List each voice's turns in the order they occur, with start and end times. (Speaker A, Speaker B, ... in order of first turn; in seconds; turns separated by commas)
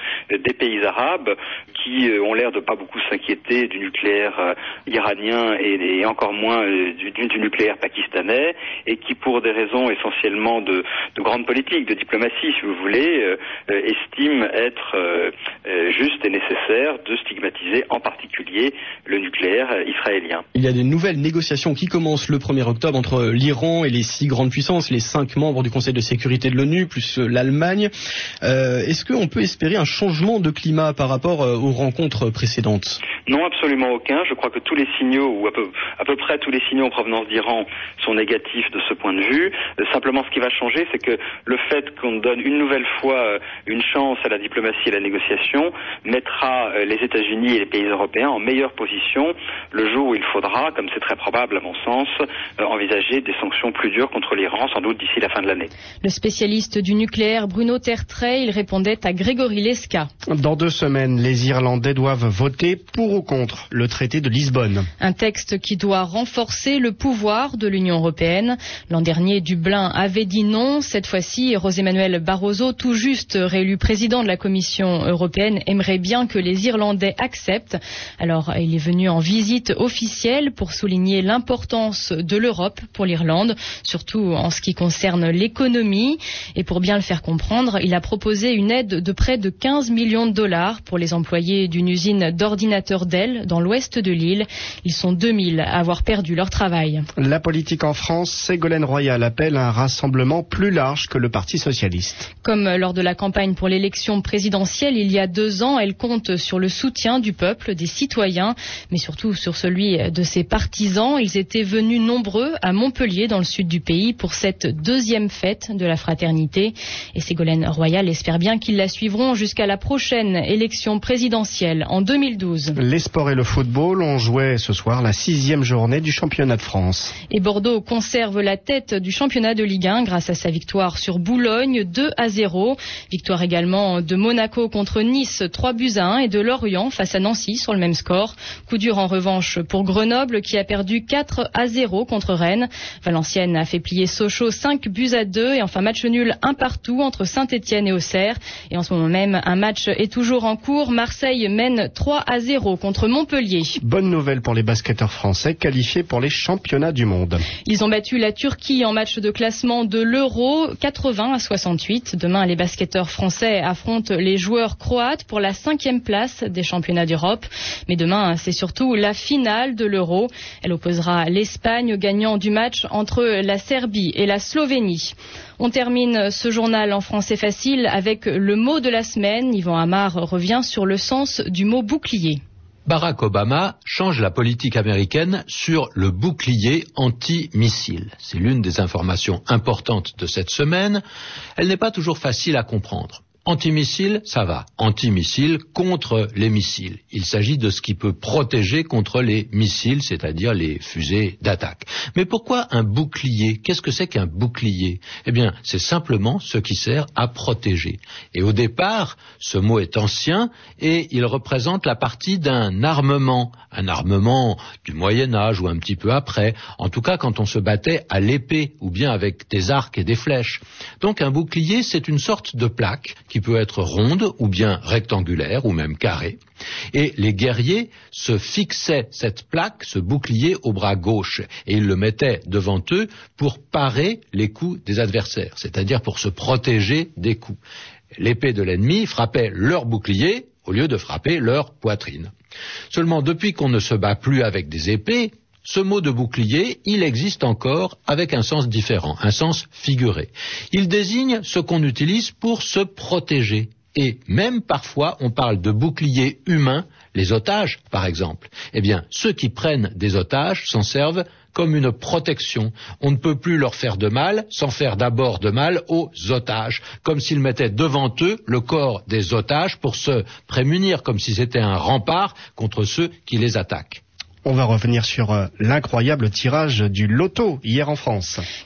Speaker A: 0.3-20.4, Speaker B: 20.6-27.9, Speaker B: 28.5-32.8, Speaker A: 33.2-55.7, Speaker C: 56.0-60.1, Speaker D: 60.3-64.9, Speaker C: 65.0-97.0, Speaker D: 97.2-102.3, Speaker C: 102.4-122.8, Speaker D: 122.8-127.1, Speaker C: 127.3-153.8, Speaker D: 153.8-157.4, Speaker C: 157.6-182.4, Speaker E: 182.8-191.0, Speaker E: 191.6-226.4, Speaker E: 226.9-237.6, Speaker E: 238.1-242.3, Speaker E: 242.9-274.0, Speaker D: 274.4-278.4